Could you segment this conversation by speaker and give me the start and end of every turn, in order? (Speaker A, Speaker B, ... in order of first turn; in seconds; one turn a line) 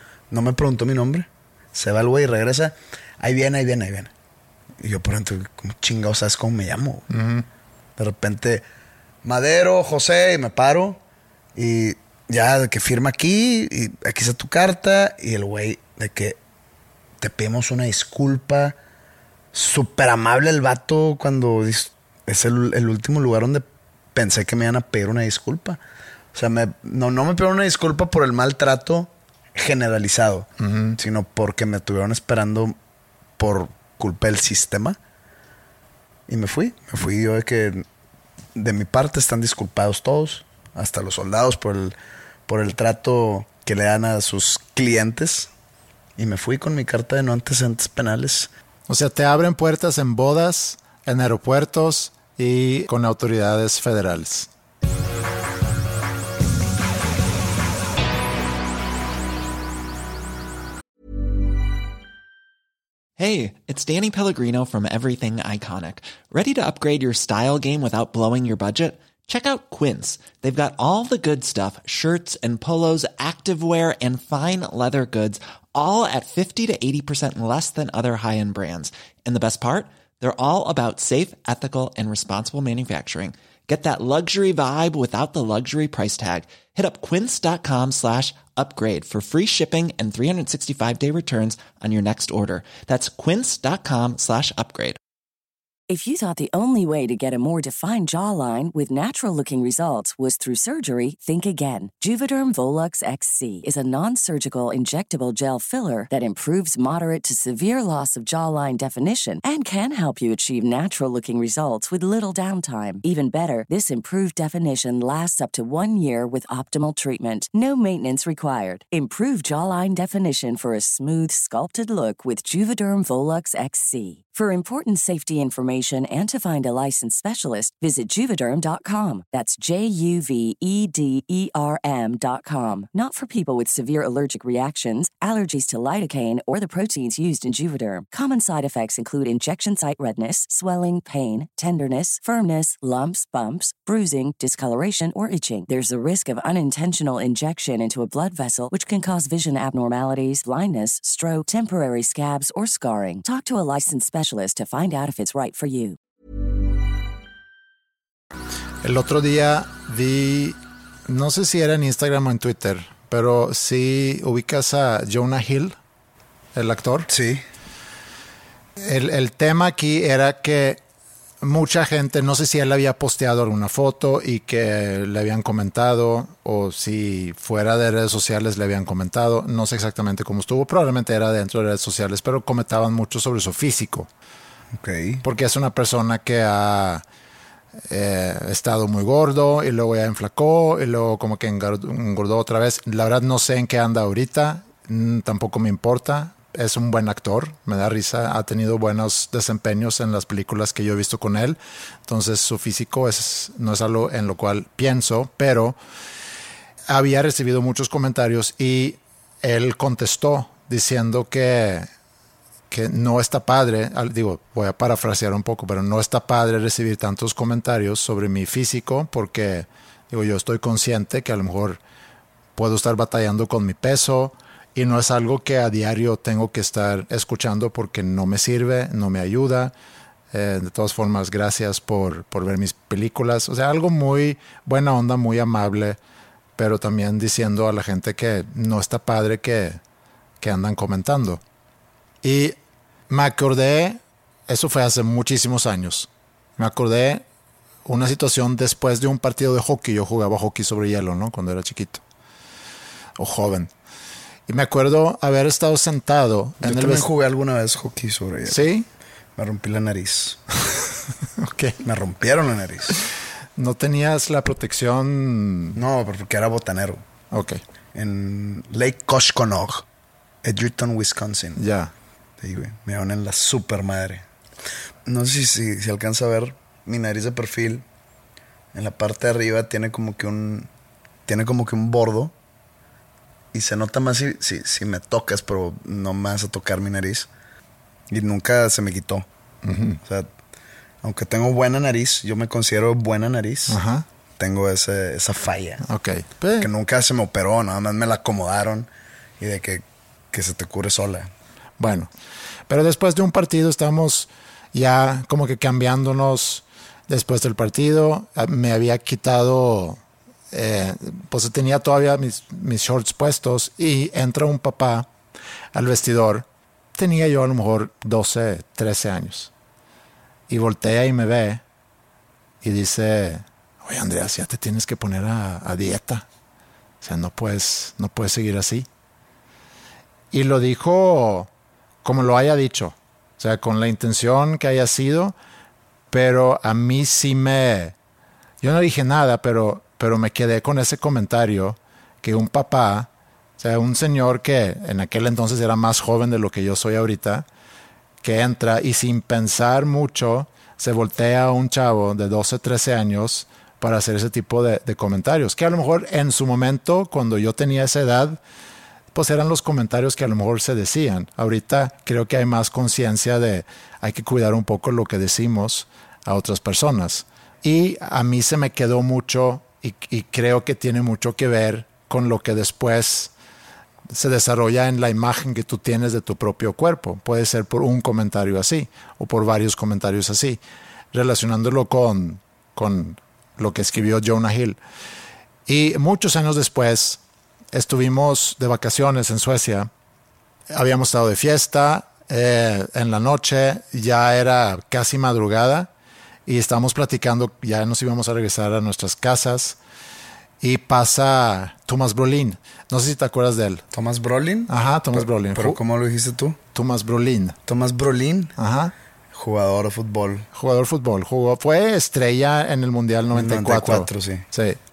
Speaker A: 0.3-4.1
Speaker A: 4.8-7.0
Speaker B: 7.1-7.5
Speaker A: 8.0-8.6
Speaker A: 9.2-11.0
Speaker A: 11.6-16.4
Speaker A: 17.2-18.8
Speaker A: 19.5-25.8
Speaker A: 26.3-32.7
Speaker B: 30.6-31.0
Speaker A: 33.4-35.0
Speaker A: 36.3-37.9
Speaker A: 38.5-42.0
Speaker A: 42.5-45.5
Speaker A: 46.2-48.5
Speaker B: 48.9-54.5
Speaker C: 63.2-95.0
Speaker D: 95.9-156.0
Speaker B: 158.8-165.8
Speaker B: 166.6-167.1
Speaker A: 167.1-167.4
Speaker B: 168.8-170.8
Speaker B: 171.4-184.1
Speaker A: 184.7-185.2
Speaker B: 185.2-187.0
Speaker B: 187.9-205.8
Speaker B: 206.9-211.9
Speaker B: 212.7-221.8
Speaker B: 222.6-229.7
Speaker B: 230.3-236.0
Speaker B: 236.6-239.8
Speaker B: 240.4-241.4
Speaker B: 242.2-242.6
Speaker B: 243.1-247.2
Speaker B: 247.8-252.0
Speaker B: 253.2-253.7
Speaker B: 254.5-257.1
Speaker A: 256.6-258.6
Speaker B: 258.5-258.9
Speaker A: 259.4-260.4
Speaker B: 261.4-261.8
Speaker A: 261.8-263.0
Speaker B: 263.6-265.8
Speaker A: 265.8-267.0
Speaker B: 267.3-267.6
Speaker A: 267.9-269.9
Speaker A: 270.4-271.6
Speaker B: 271.6-271.9
Speaker A: 272.4-274.2
Speaker A: 275.1-277.8
Speaker A: 278.7-280.7
Speaker A: 281.3-282.3
Speaker A: 283.5-287.3
Speaker A: 288.1-289.3
Speaker B: 289.6-290.0
Speaker A: 291.0-293.8
Speaker B: 293.7-294.1
Speaker A: 294.4-295.9
Speaker B: 295.9-296.7
Speaker A: 296.6-298.9
Speaker A: 299.4-301.3
Speaker B: 301.8-302.1
Speaker B: 302.7-310.0
Speaker B: 310.5-315.1
Speaker B: 315.7-319.5
Speaker B: 320.5-321.6
Speaker B: 322.6-326.3
Speaker B: 327.0-328.9
Speaker B: 330.3-331.5
Speaker B: 332.0-335.4
Speaker B: 336.1-337.9
Speaker B: 338.6-347.4
Speaker B: 348.2-358.4
Speaker B: 359.1-373.3
Speaker B: 374.1-380.6
Speaker B: 381.1-384.8
Speaker B: 385.7-387.2
Speaker B: 387.7-389.9
Speaker B: 390.7-395.9
Speaker B: 396.4-399.8
Speaker B: 400.6-403.8
Speaker A: 403.9-406.6
Speaker B: 404.7-405.8
Speaker B: 406.7-407.6
Speaker A: 407.7-408.6
Speaker B: 408.6-408.9
Speaker A: 409.3-410.4
Speaker B: 410.6-414.8
Speaker A: 413.3-414.4